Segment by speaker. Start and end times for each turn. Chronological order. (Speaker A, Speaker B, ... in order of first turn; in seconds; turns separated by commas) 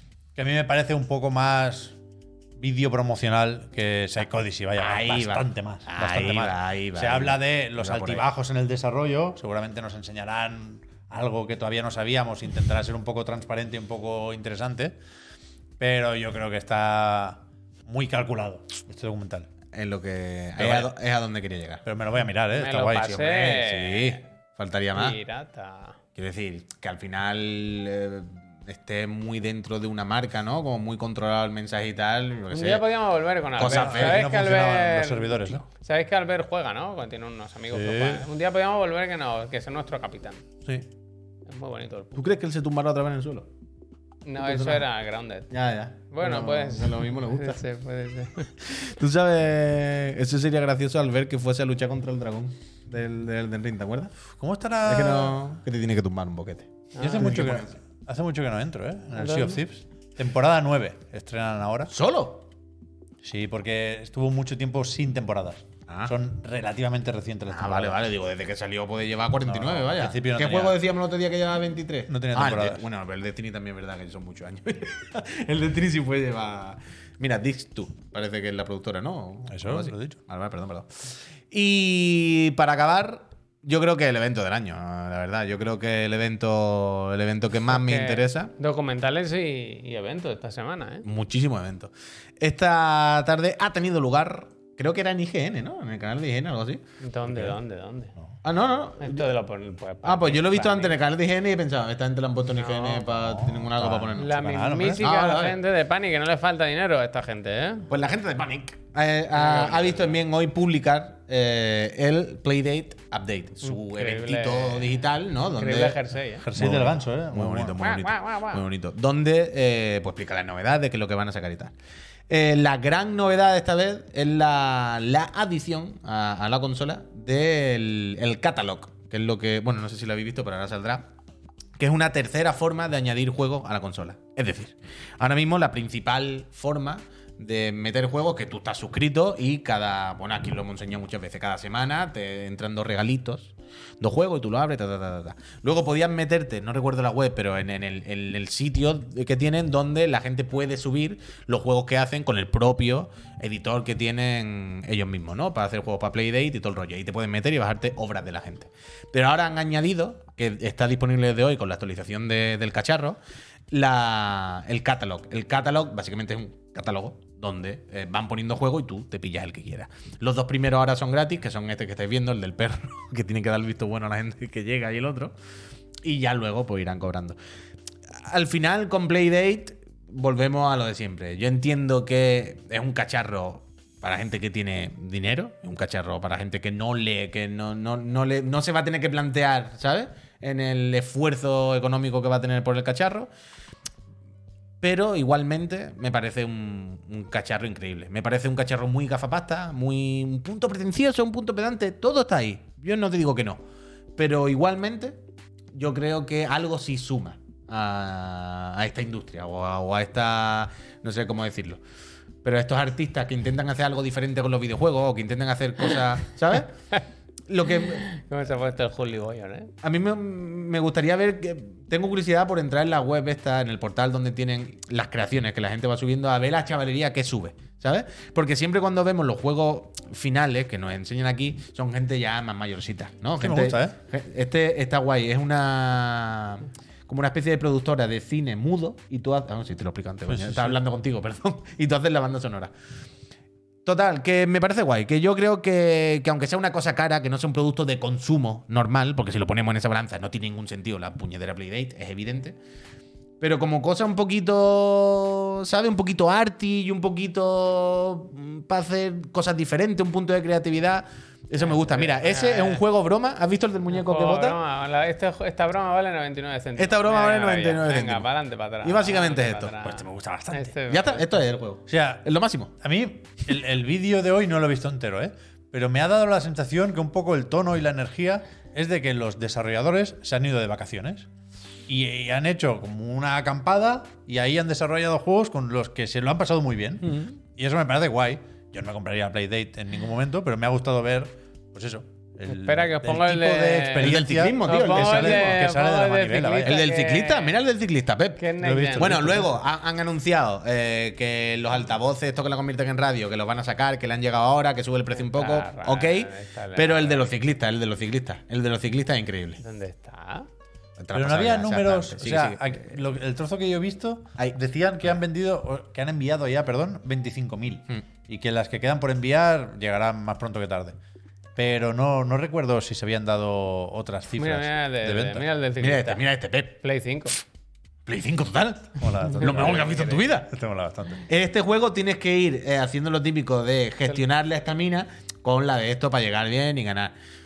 Speaker A: 0.3-2.0, Speaker A: 2.6-14.9, Speaker B: 4.8-8.2, Speaker A: 15.8-19.5, Speaker B: 19.7-21.8, Speaker A: 20.6-20.9, Speaker A: 21.8-23.5, Speaker C: 22.5-24.2, Speaker B: 23.0-25.2, Speaker C: 24.9-26.0, Speaker B: 26.1-32.9, Speaker C: 32.5-40.4, Speaker B: 33.5-34.2, Speaker A: 33.6-35.6, Speaker A: 37.7-38.2, Speaker C: 41.5-42.2, Speaker B: 42.1-43.5, Speaker C: 44.2-45.5, Speaker B: 44.4-44.9, Speaker B: 45.5-47.6, Speaker C: 46.1-48.5, Speaker B: 48.6-54.1, Speaker A: 54.4-55.4, Speaker B: 54.8-57.8, Speaker C: 56.9-57.4, Speaker A: 57.0-61.9, Speaker C: 59.2-59.6, Speaker B: 61.9-62.5, Speaker A: 63.2-68.0, Speaker B: 65.9-66.1, Speaker B: 67.5-80.9, Speaker A: 69.4-70.8, Speaker A: 72.1-72.8, Speaker A: 79.5-80.2, Speaker B: 81.5-88.5, Speaker C: 87.7-91.0, Speaker B: 91.0-96.8, Speaker C: 97.0-98.1, Speaker B: 98.4-99.3, Speaker C: 99.0-101.0, Speaker B: 100.0-105.6, Speaker C: 102.5-103.0, Speaker A: 103.1-105.0, Speaker C: 104.2-107.9, Speaker B: 107.9-116.0, Speaker C: 109.3-110.2, Speaker C: 113.6-114.9, Speaker C: 115.5-116.5, Speaker A: 116.4-117.8, Speaker B: 116.5-121.7, Speaker C: 117.8-118.6, Speaker B: 122.3-131.1, Speaker B: 131.8-163.2, Speaker B: 163.7-175.3, Speaker B: 176.0-177.4, Speaker B: 178.2-193.3, Speaker B: 194.8-203.6, Speaker B: 204.2-205.2, Speaker B: 205.7-211.8, Speaker B: 212.4-216.7, Speaker B: 217.5-218.1, Speaker C: 217.7-219.7, Speaker B: 219.8-242.7, Speaker A: 233.4-233.9, Speaker A: 240.3-240.8, Speaker B: 243.8-252.6, Speaker B: 253.4-264.6, Speaker C: 261.6-262.8, Speaker C: 263.9-271.3, Speaker B: 266.8-268.3, Speaker B: 268.8-269.7, Speaker A: 269.8-270.7, Speaker B: 270.9-272.7, Speaker A: 271.9-272.2, Speaker A: 272.8-281.3, Speaker A: 281.9-296.8, Speaker B: 287.0-287.3, Speaker C: 292.4-297.6, Speaker B: 294.0-295.6, Speaker B: 296.6-298.4, Speaker C: 298.4-299.2, Speaker A: 298.6-299.6, Speaker B: 298.9-309.6, Speaker C: 305.1-307.3, Speaker C: 309.6-310.5, Speaker B: 311.0-312.9, Speaker A: 311.1-321.0, Speaker A: 321.6-325.5, Speaker C: 324.3-326.2, Speaker B: 325.8-326.8, Speaker C: 326.8-327.3, Speaker B: 328.1-330.5, Speaker A: 329.0-331.2, Speaker C: 329.4-330.2, Speaker B: 331.3-337.1